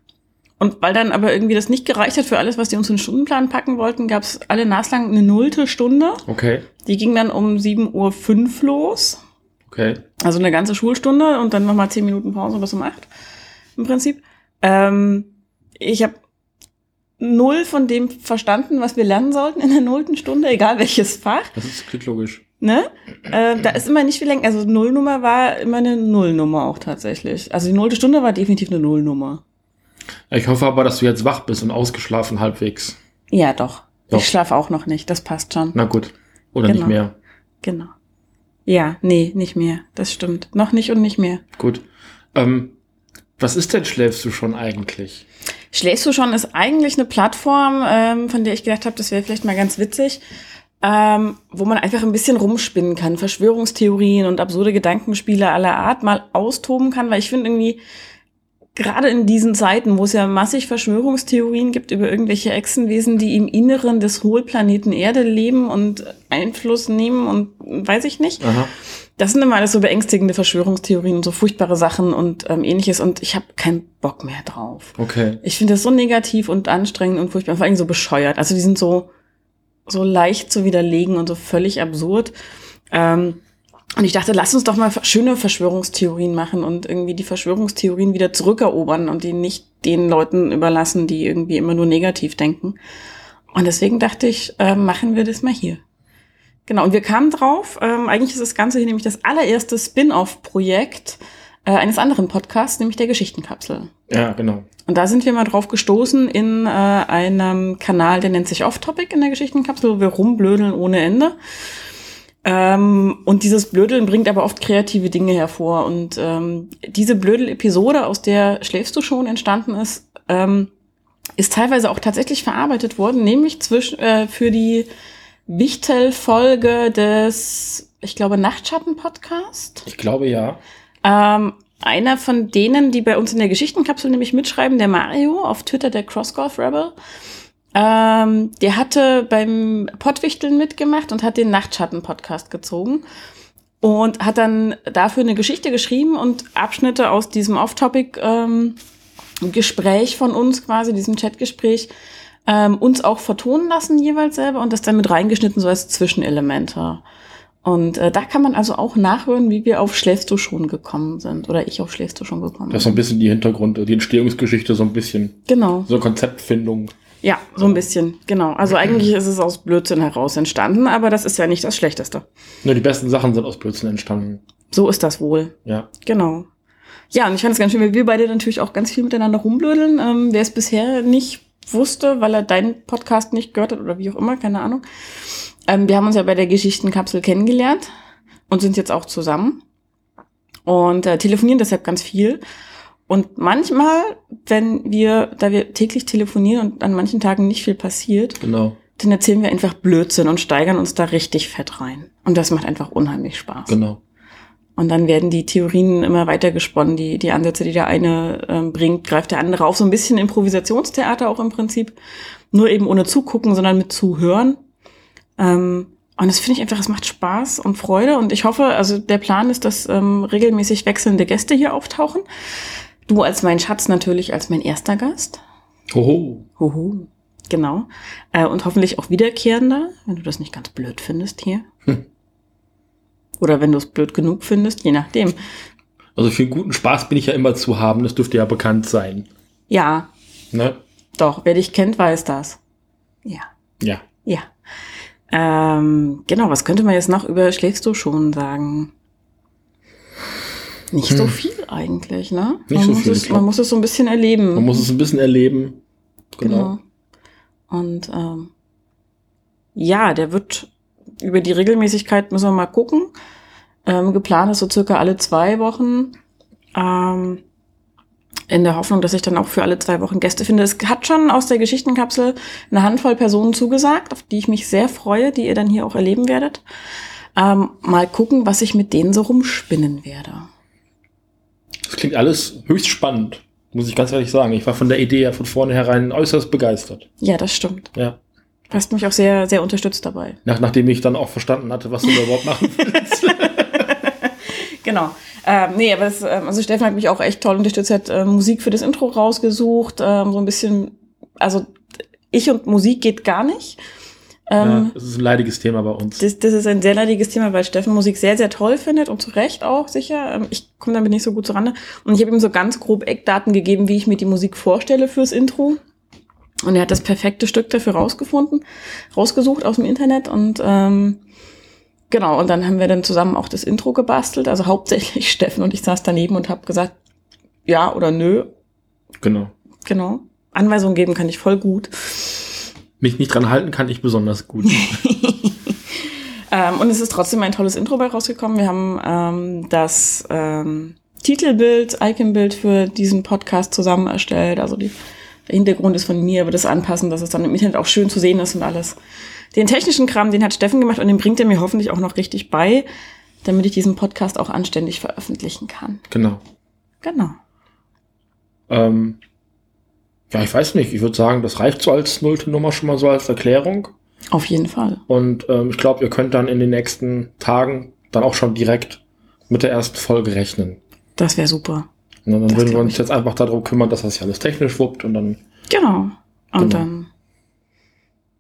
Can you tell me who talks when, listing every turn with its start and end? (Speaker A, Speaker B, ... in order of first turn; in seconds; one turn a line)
Speaker A: 0.6-6.2
Speaker B: 6.3-6.7
Speaker A: 6.8-9.2
Speaker B: 9.7-10.0
Speaker A: 10.2-13.1
Speaker A: 13.8-16.2
Speaker A: 17.2-21.6
Speaker B: 21.6-22.4
Speaker A: 22.6-29.4
Speaker B: 30.3-33.0
Speaker A: 33.3-35.8
Speaker B: 35.7-37.1
Speaker A: 36.7-37.0
Speaker A: 37.6-37.9
Speaker A: 38.7-41.4
Speaker B: 41.6-41.8
Speaker B: 42.4-42.8
Speaker B: 43.4-45.2
Speaker A: 45.7-50.2
Speaker A: 50.8-57.8
Speaker A: 58.8-68.5
Speaker B: 68.4-68.7
Speaker A: 69.2-79.1
Speaker B: 75.0-75.4
Speaker A: 79.9-82.3
Speaker A: 82.9-83.4
Speaker A: 84.0-92.8
Speaker A: 93.5-95.8
Speaker A: 96.7-103.9
Speaker B: 104.1-104.7
Speaker A: 104.9-111.4
Speaker A: 112.4-120.7
Speaker A: 121.4-124.9
Speaker A: 125.5-129.8
Speaker B: 129.9-130.6
Speaker A: 131.0-136.9
Speaker A: 137.8-143.0
Speaker A: 143.8-148.8
Speaker A: 149.4-151.9
Speaker A: 152.5-157.0
Speaker A: 157.6-163.0
Speaker B: 162.7-166.9
Speaker A: 165.5-165.9
Speaker A: 167.2-172.2
Speaker B: 167.6-167.8
Speaker B: 168.7-169.0
Speaker B: 172.6-174.4
Speaker A: 174.7-176.5
Speaker A: 177.1-187.9
Speaker A: 188.5-189.6
Speaker A: 190.7-192.4
Speaker A: 193.1-198.4
Speaker B: 198.4-198.8
Speaker A: 199.0-203.8
Speaker B: 203.7-204.0
Speaker A: 204.8-211.9
Speaker A: 212.5-214.6
Speaker A: 215.4-222.2
Speaker A: 223.1-225.4
Speaker B: 225.9-226.5
Speaker A: 226.6-231.7
Speaker A: 233.4-235.4
Speaker B: 236.2-239.3
Speaker A: 239.7-240.1
Speaker B: 240.5-240.8
Speaker A: 241.2-242.6
Speaker B: 243.8-244.1
Speaker A: 245.3-248.9
Speaker A: 250.9-254.9
Speaker B: 251.1-251.4
Speaker B: 252.7-253.5
Speaker B: 254.6-255.8
Speaker B: 256.4-256.7
Speaker A: 256.4-256.8
Speaker A: 257.7-258.5
Speaker A: 259.8-263.1
Speaker A: 263.9-266.2
Speaker A: 266.8-267.4
Speaker A: 268.5-276.6
Speaker A: 277.4-280.5
Speaker B: 281.9-287.1
Speaker A: 287.2-287.9
Speaker A: 288.7-290.4
Speaker B: 290.4-293.8
Speaker A: 292.1-301.7
Speaker A: 302.3-303.8
Speaker A: 304.5-304.9
Speaker B: 304.6-306.2
Speaker A: 306.2-315.8
Speaker A: 316.6-321.2
Speaker A: 322.1-326.9
Speaker A: 327.7-328.5
Speaker B: 329.2-329.5
Speaker A: 329.9-332.7
Speaker B: 333.0-335.0
Speaker A: 334.6-344.9
Speaker A: 345.5-349.0
Speaker A: 349.5-352.9
Speaker A: 353.4-356.0
Speaker B: 356.1-356.4
Speaker A: 357.0-357.4
Speaker B: 358.7-359.2
Speaker B: 360.3-363.9
Speaker A: 364.3-365.0
Speaker B: 365.1-370.8
Speaker A: 371.2-371.9
Speaker B: 372.3-375.4
Speaker A: 372.5-373.0
Speaker A: 375.7-377.1
Speaker B: 376.6-376.9